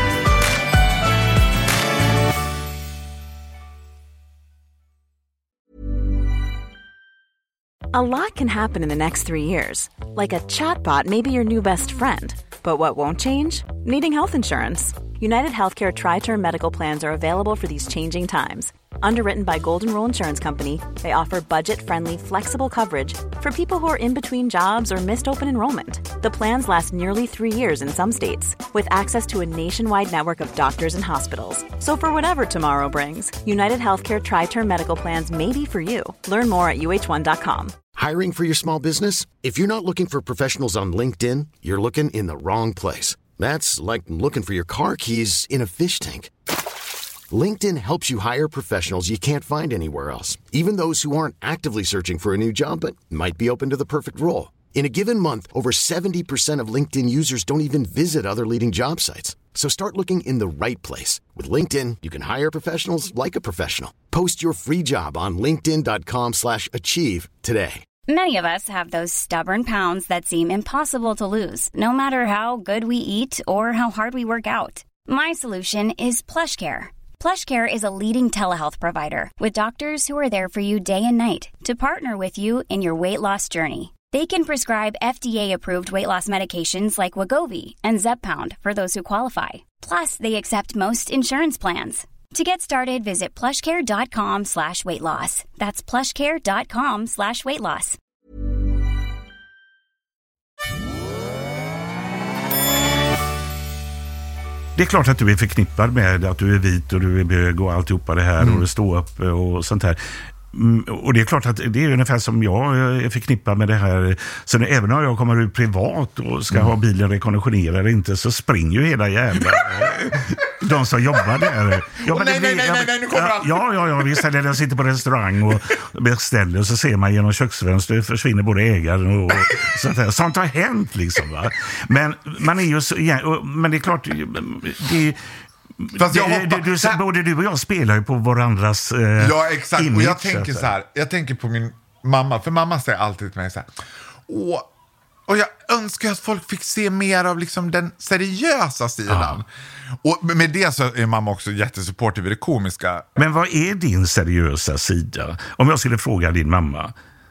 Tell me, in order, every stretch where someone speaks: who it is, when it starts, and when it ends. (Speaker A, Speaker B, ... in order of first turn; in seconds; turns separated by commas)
Speaker A: 7.9-37.8, Speaker B: 38.0-46.3, Speaker B: 47.3-67.8, Speaker C: 68.1-98.0, Speaker D: 104.8-110.0, Speaker E: 108.4-108.7, Speaker D: 110.5-135.2, Speaker E: 121.9-124.2, Speaker D: 135.8-140.7, Speaker E: 136.0-137.0, Speaker E: 139.2-143.7, Speaker E: 144.3-144.7, Speaker E: 145.3-149.5, Speaker D: 149.1-149.4, Speaker E: 150.0-153.1, Speaker D: 153.2-156.9